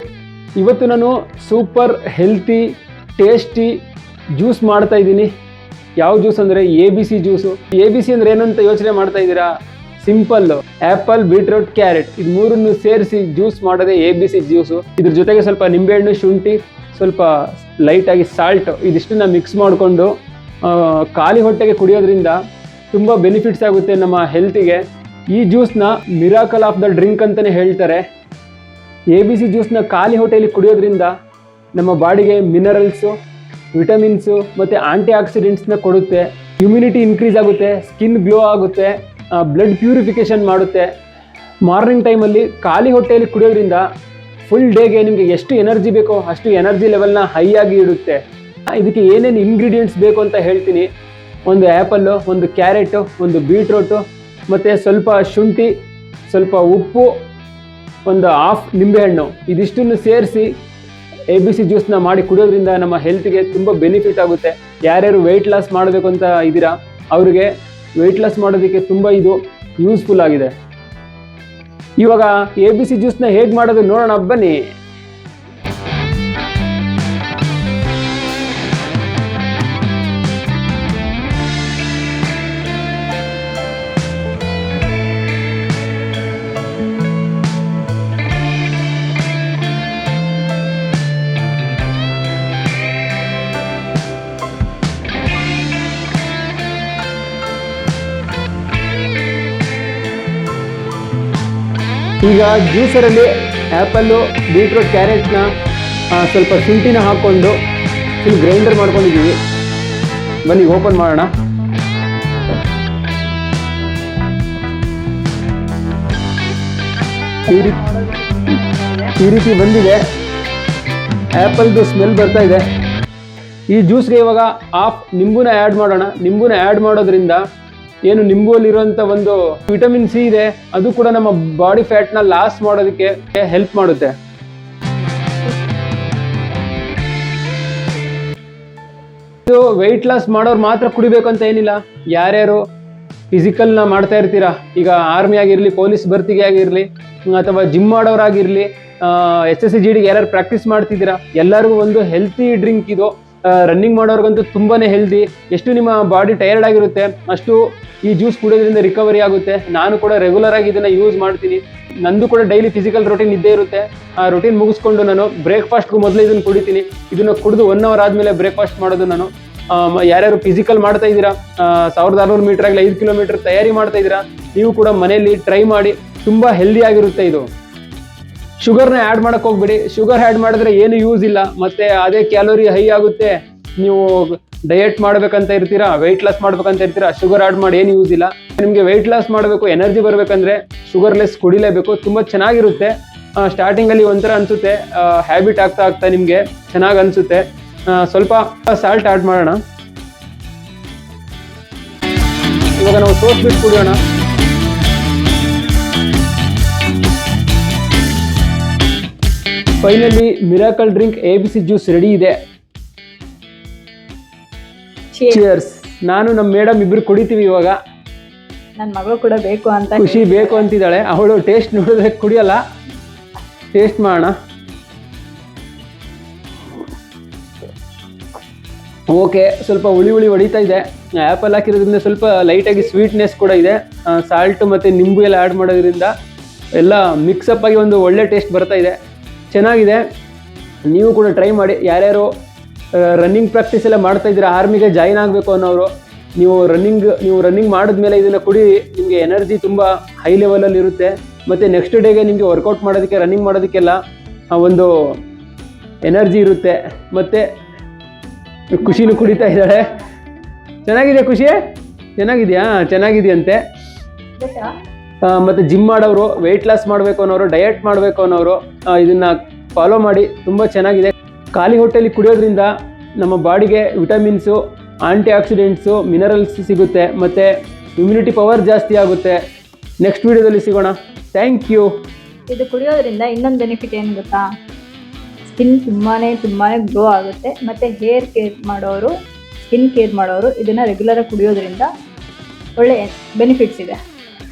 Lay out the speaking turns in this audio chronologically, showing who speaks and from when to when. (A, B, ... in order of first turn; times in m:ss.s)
0:00.6-0:03.8 A
0:04.3-0:05.3 A
0:06.0-0:22.4 A
0:22.9-0:28.0 A
0:29.1-0:31.1 A
0:31.7-0:33.2 A
0:33.7-0:40.9 A
0:41.6-0:43.8 A
0:44.4-0:50.9 A
0:51.4-0:55.8 A
0:56.3-0:57.2 A
0:58.0-1:00.6 A
1:01.3-1:10.5 A
1:12.0-1:14.7 A
1:42.2-1:45.5 A
1:46.1-1:47.6 A
1:48.2-1:49.4 A
1:50.4-1:51.3 A
1:57.5-1:57.9 A
1:57.9-1:58.5 B
1:59.1-2:00.0 A
2:01.4-2:02.6 A
2:03.7-2:07.4 A
2:08.0-2:14.2 A
2:19.5-2:22.6 A
2:23.3-2:57.5 A
2:58.6-3:19.6 A
3:22.8-3:24.0 A
3:29.8-3:32.4 A
3:35.1-3:35.4 B
3:35.3-3:37.7 A
3:38.8-3:40.7 B
3:39.9-3:42.6 A
3:43.7-3:44.3 A
3:49.1-3:56.1 A
3:56.7-3:59.0 A
3:59.5-4:00.0 A
4:00.8-4:02.3 A
4:02.9-4:14.0 A
4:14.5-4:15.2 A
4:16.0-4:17.4 A
4:18.7-4:19.9 A
4:18.8-4:20.0 B
4:20.8-4:21.6 A
4:22.2-4:23.6 A
4:24.4-4:24.7 B
4:25.2-4:39.4 A
4:40.0-4:41.9 A
4:42.5-4:44.4 B
4:45.4-4:49.1 B
4:49.6-4:51.9 B
4:52.8-4:54.0 B